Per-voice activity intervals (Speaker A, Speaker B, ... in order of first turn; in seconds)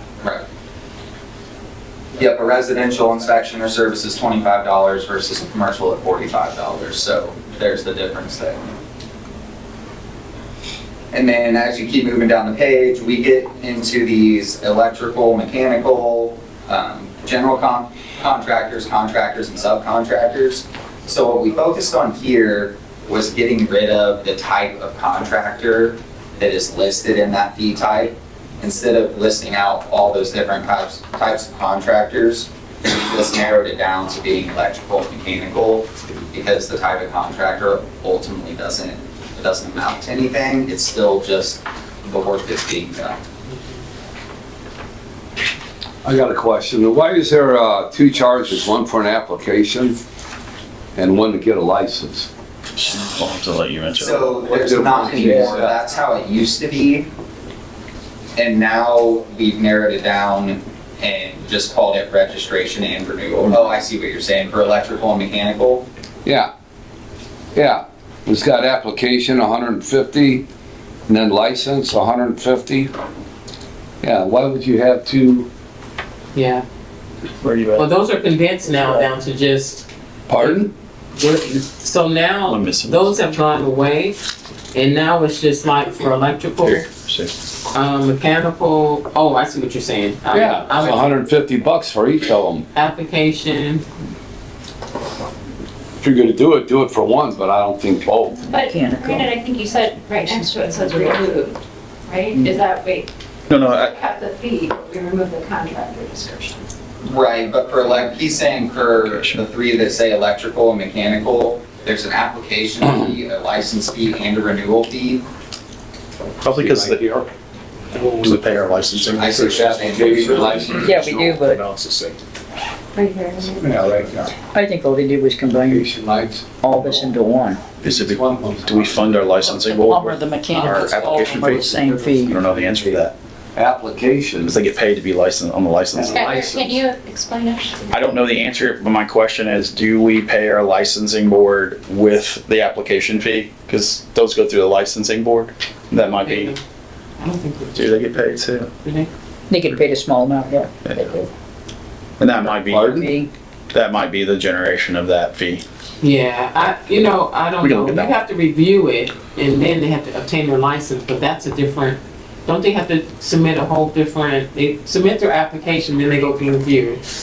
Speaker A: 2.1-8.7, 11.1-43.2, 53.9-57.1, 58.4-65.9, 107.0-115.2, 119.2-120.7
Speaker B: 46.0-50.0, 50.9-52.3, 54.5-55.7, 66.2-66.5, 67.5-70.4, 71.1-72.9, 74.0-75.5, 80.3-80.7, 90.3-92.6, 96.0-98.5, 119.3-121.0, 123.5-124.3, 125.6-127.1, 127.8-129.2, 130.9-134.6, 135.9-136.6, 152.7-153.1
Speaker C: 52.7-54.5, 77.4-77.9, 78.8-79.0, 82.5-83.1, 86.6-87.3, 103.5-103.9, 108.9-109.5, 116.4-117.1, 118.2-119.8, 120.9-121.3, 127.8-133.1, 134.4-136.3, 137.9-146.5, 147.7-148.7, 152.2-153.1, 153.7-155.6, 157.6-158.1
Speaker D: 76.3-76.6, 77.7-84.2, 84.7-86.9, 87.7-91.0, 92.7-93.8, 130.5-131.3, 145.9-146.6, 147.2-148.2, 148.8-149.1, 156.0-167.0
Speaker E: 98.5-103.1, 103.6-106.6, 122.9-123.7, 136.1-137.8
Speaker F: 98.5-99.3, 100.2-101.4, 120.8-121.6, 124.5-125.8, 126.6-127.6, 129.5-132.3, 149.5-151.3, 152.8-153.3
Speaker G: 116.6-117.2, 117.9-119.4, 121.3-122.1